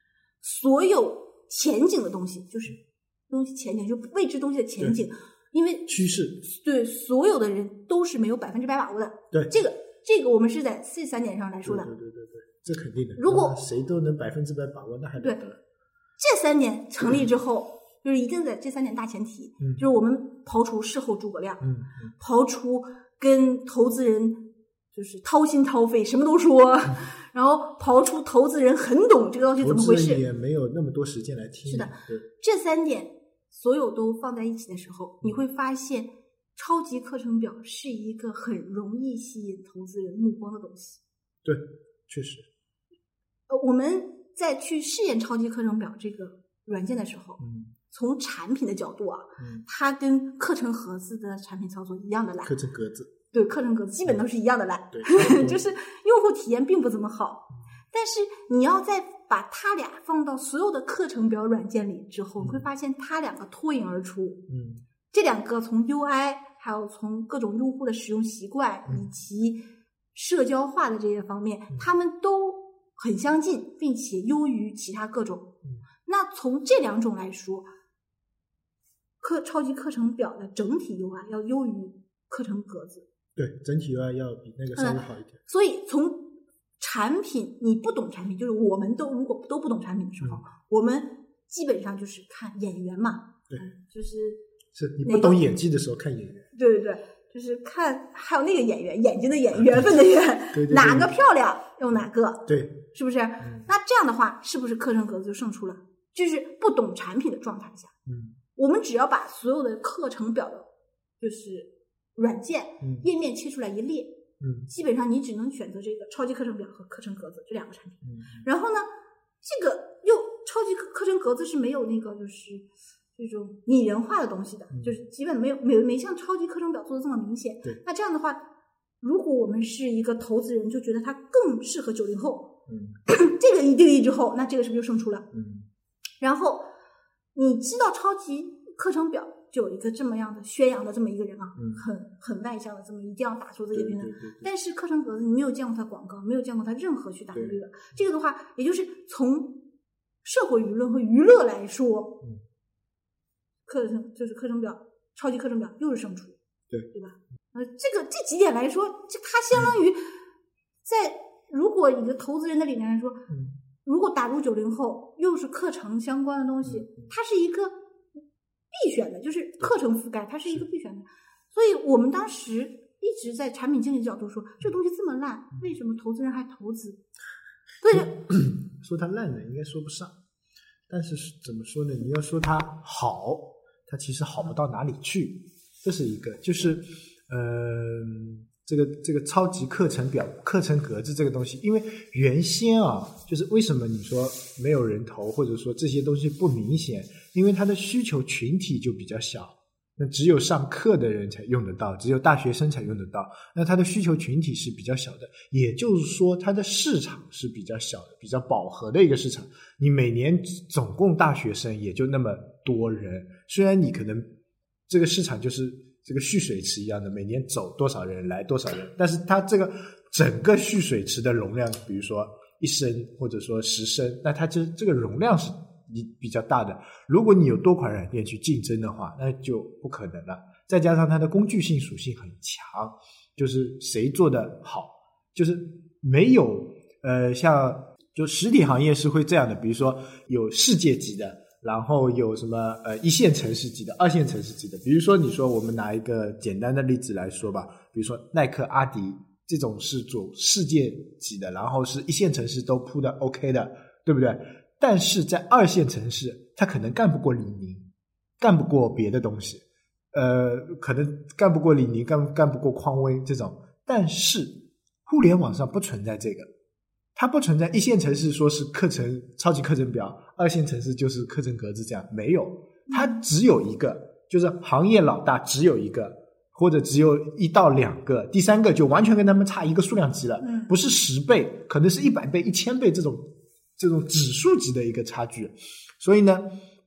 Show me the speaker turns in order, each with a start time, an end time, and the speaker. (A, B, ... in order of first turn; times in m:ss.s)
0:00.4-0:11.9 A
0:05.9-0:06.4 B
0:11.6-0:15.6 B
0:13.2-0:13.6 A
0:16.2-0:21.6 A
0:19.6-0:19.9 B
0:21.6-0:22.1 B
0:22.2-0:24.4 A
0:24.9-0:30.2 A
0:29.6-0:32.2 B
0:31.7-0:41.0 A
0:41.4-0:42.5 B
0:43.5-0:52.6 A
0:47.4-0:47.7 B
0:49.4-0:49.6 B
0:52.4-0:53.1 B
0:53.3-1:04.4 A
0:54.9-0:55.6 B
1:02.4-1:02.7 B
1:04.5-1:04.8 B
1:05.1-1:09.6 A
1:10.1-1:15.5 A
1:16.0-1:17.7 A
1:19.2-1:23.1 A
1:23.4-1:25.4 B
1:24.8-1:26.2 A
1:26.8-1:34.4 A
1:34.7-1:36.5 B
1:35.0-1:35.4 A
1:36.5-1:47.9 A
1:39.6-1:39.9 B
1:40.5-1:41.1 B
1:41.9-1:42.8 B
1:43.4-1:43.7 B
1:48.1-1:48.4 B
1:48.6-1:50.7 A
1:51.2-1:54.2 A
1:52.8-1:53.1 B
1:54.4-1:54.7 B
1:54.7-1:58.9 A
1:58.0-1:58.5 B
1:59.4-2:08.4 A
2:04.7-2:05.0 B
2:09.0-2:12.5 A
2:12.7-2:13.0 B
2:13.1-2:15.3 A
2:15.3-2:15.7 B
2:16.2-2:16.6 A
2:17.4-2:29.5 A
2:21.6-2:21.8 B
2:23.7-2:24.5 B
2:27.3-2:27.6 B
2:30.2-2:32.2 A
2:33.7-2:36.4 A
2:36.9-2:40.0 A
2:40.8-2:43.3 A
2:43.3-2:43.6 B
2:43.8-2:47.8 A
2:46.6-2:47.1 B
2:48.7-2:57.0 A
2:57.8-2:58.2 A
2:57.9-3:00.1 B
3:00.9-3:34.3 B
3:34.9-4:17.9 B
4:18.4-4:26.5 B
4:27.2-4:43.2 B
4:32.9-4:33.2 A
4:40.4-4:40.7 A
4:43.8-4:46.4 B